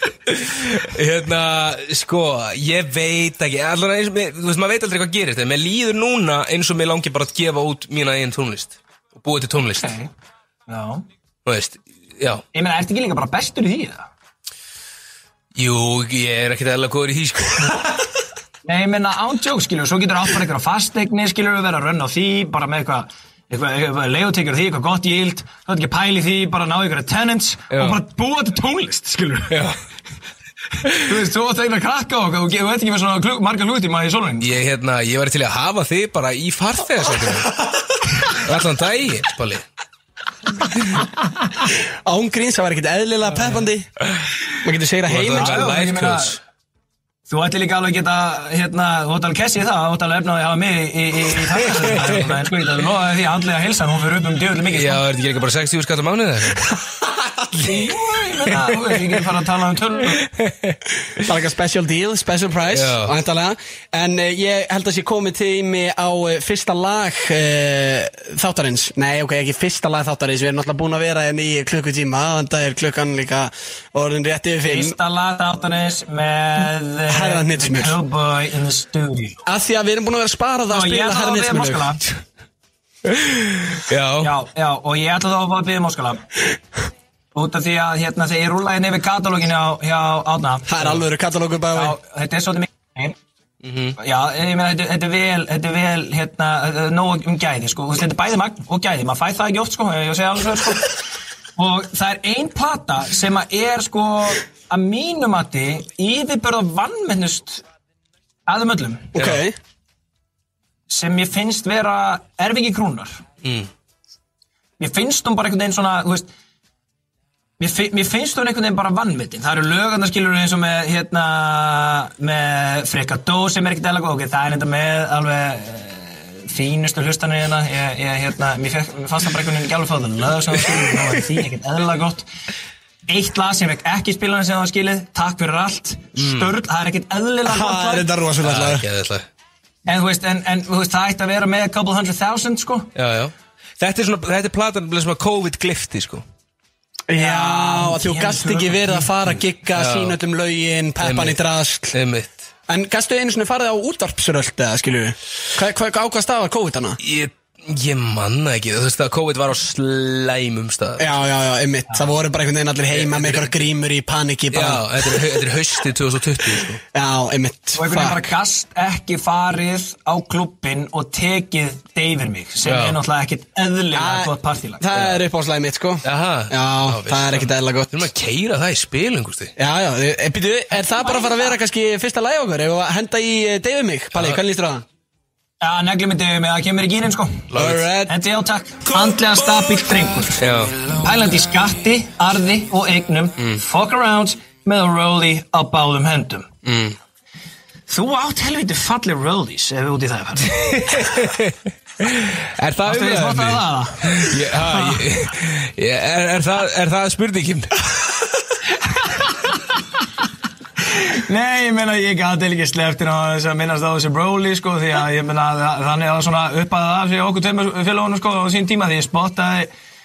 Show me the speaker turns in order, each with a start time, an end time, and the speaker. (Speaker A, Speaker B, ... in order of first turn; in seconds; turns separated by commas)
Speaker A: 0.3-9.9, Speaker B: 9.8-10.1, Speaker B: 10.7-11.1, Speaker A: 11.4-12.4, Speaker B: 12.5-14.1, Speaker A: 15.6-17.9, Speaker B: 18.6-29.6, Speaker A: 27.7-28.0, Speaker A: 29.5-29.8, Speaker A: 30.8-31.1, Speaker B: 30.9-34.6, Speaker A: 34.4-37.5, Speaker A: 38.2-39.6, Speaker C: 42.0-43.9, Speaker C: 44.6-45.6, Speaker A: 45.0-46.4, Speaker B: 45.2-46.4, Speaker B: 47.3-55.0, Speaker A: 51.8-52.4, Speaker A: 54.7-56.8, Speaker B: 57.6-60.2, Speaker A: 57.6-59.0, Speaker A: 60.2-60.8, Speaker C: 61.2-75.0, Speaker A: 62.7-63.1, Speaker B: 74.6-79.4, Speaker C: 77.1-78.0, Speaker C: 79.4-82.0, Speaker B: 80.7-82.0, Speaker A: 83.0-84.3, Speaker B: 84.2-86.2, Speaker B: 87.3-91.0, Speaker C: 90.7-92.0, Speaker B: 91.7-93.2, Speaker A: 93.6-94.0, Speaker B: 94.0-101.0, Speaker B: 101.6-107.6, Speaker B: 108.5-109.1, Speaker C: 109.1-109.5, Speaker A: 109.2-109.4, Speaker B: 110.9-113.2, Speaker A: 113.4-113.7, Speaker B: 114.8-116.3, Speaker B: 117.6-132.2, Speaker B: 133.1-138.1, Speaker A: 136.2-136.5, Speaker C: 137.4-138.8, Speaker A: 138.4-139.2, Speaker B: 139.9-142.9, Speaker A: 142.9-146.2, Speaker C: 147.1-151.9, Speaker B: 147.1-149.1, Speaker A: 149.7-150.2, Speaker A: 151.0-151.4, Speaker A: 151.9-152.5, Speaker C: 152.7-157.0, Speaker A: 157.0-161.1, Speaker C: 161.0-165.3, Speaker A: 162.9-163.5, Speaker A: 164.5-166.8, Speaker C: 166.9-168.3, Speaker B: 167.7-175.2, Speaker A: 172.6-173.0, Speaker C: 173.9-178.1, Speaker A: 176.0-179.5, Speaker C: 179.6-184.8, Speaker B: 181.0-181.4, Speaker B: 185.6-187.5, Speaker A: 187.5-188.0, Speaker C: 187.5-188.1, Speaker B: 188.1-190.4, Speaker A: 188.9-189.7, Speaker A: 190.3-190.9, Speaker B: 190.9-196.5, Speaker A: 196.6-196.9, Speaker B: 197.9-201.2, Speaker A: 200.6-207.7, Speaker B: 202.8-205.0, Speaker B: 208.9-209.3, Speaker B: 210.9-219.7